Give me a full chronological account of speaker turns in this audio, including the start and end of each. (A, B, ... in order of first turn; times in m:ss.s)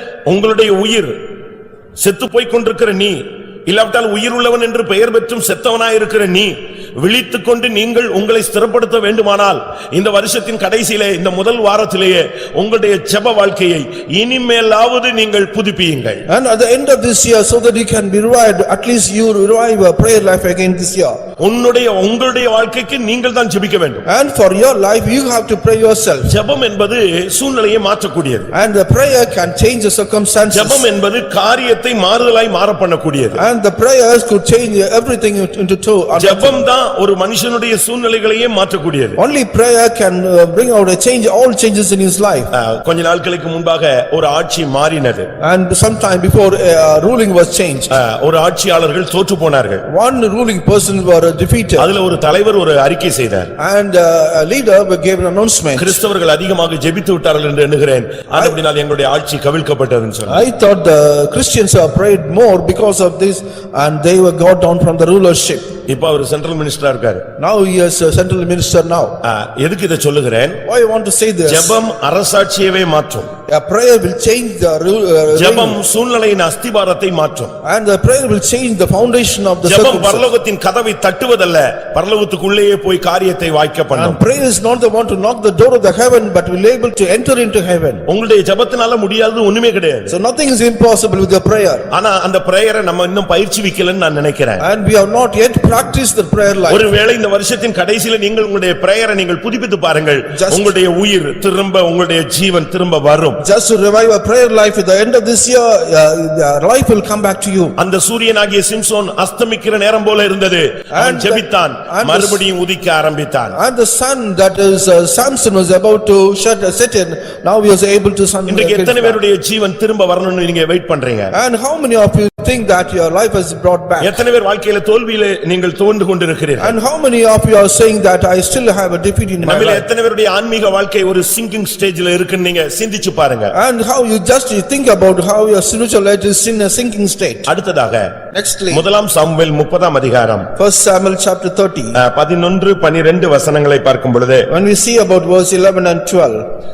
0:00.3-0:01.1 A
0:02.0-0:16.2 A
0:16.3-0:21.2 B
0:21.4-0:24.0 A
0:24.0-0:26.3 B
0:26.3-0:28.5 A
0:28.5-0:30.9 B
0:30.5-0:33.4 A
0:33.3-0:36.6 B
0:36.2-0:39.2 A
0:39.2-0:42.5 B
0:42.5-0:45.3 A
0:45.4-0:47.9 B
0:47.9-0:49.8 A
0:49.9-0:51.9 B
0:51.8-0:53.5 A
0:53.6-0:56.0 B
0:55.8-1:00.4 A
1:00.3-1:05.7 B
1:05.9-1:07.2 A
1:07.4-1:09.2 B
1:09.2-1:10.6 A
1:10.6-1:11.8 B
1:11.5-1:13.3 A
1:13.5-1:15.8 B
1:15.3-1:17.5 A
1:17.6-1:20.2 B
1:19.6-1:24.2 A
1:23.9-1:28.0 B
1:28.1-1:30.1 A
1:30.1-1:31.9 B
1:31.9-1:34.6 A
1:34.6-1:36.8 B
1:36.7-1:43.4 A
1:40.3-1:40.7 B
1:43.4-1:47.8 B
1:47.8-1:53.6 A
1:50.9-1:52.4 B
1:53.5-1:59.2 B
1:58.5-2:01.3 A
2:01.3-2:04.2 B
2:04.0-2:06.7 A
2:06.6-2:09.8 B
2:09.4-2:13.5 A
2:13.5-2:17.5 B
2:17.5-2:18.1 A
2:18.3-2:18.8 B
2:18.7-2:20.5 A
2:20.6-2:22.0 B
2:22.0-2:24.5 A
2:24.5-2:26.4 B